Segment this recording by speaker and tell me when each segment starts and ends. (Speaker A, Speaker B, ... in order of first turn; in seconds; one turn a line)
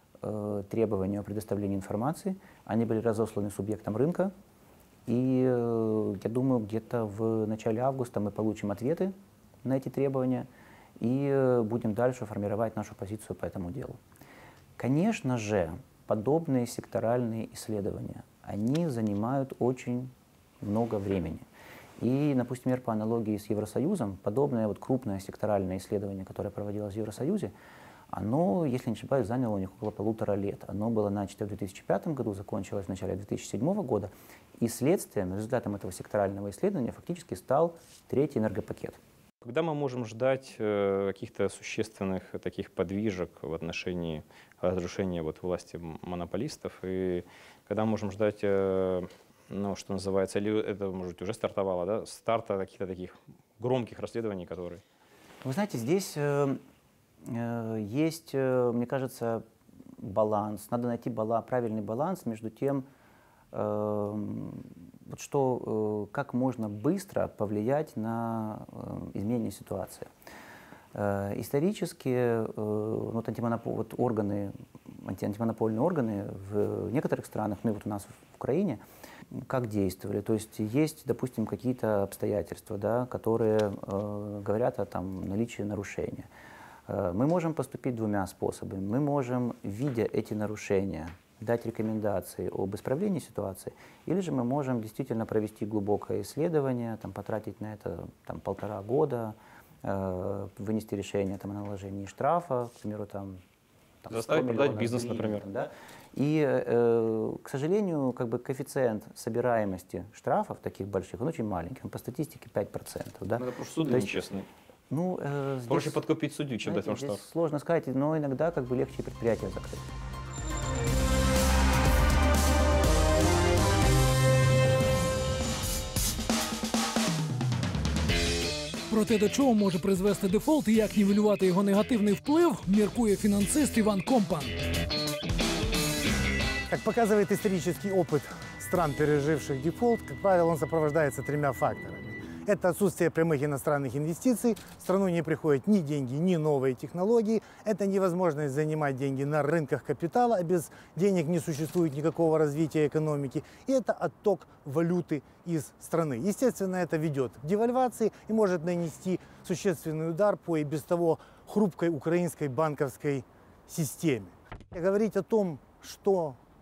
Speaker A: 0.2-4.3
Speaker A: 5.1-10.5
Speaker A: 11.0-14.0
Speaker A: 14.8-21.4
Speaker A: 22.0-27.5
Speaker A: 28.1-39.0
Speaker B: 39.4-54.8
Speaker A: 55.4-56.6
Speaker A: 57.2-59.4
Speaker A: 60.0-62.9
Speaker A: 63.5-70.1
Speaker A: 70.9-86.3
Speaker A: 86.9-103.4
Speaker A: 104.0-114.3
Speaker B: 104.1-105.4
Speaker B: 113.4-114.5
Speaker A: 114.9-116.1
Speaker B: 115.7-117.2
Speaker A: 116.6-119.8
Speaker C: 128.9-134.5
Speaker D: 136.7-166.4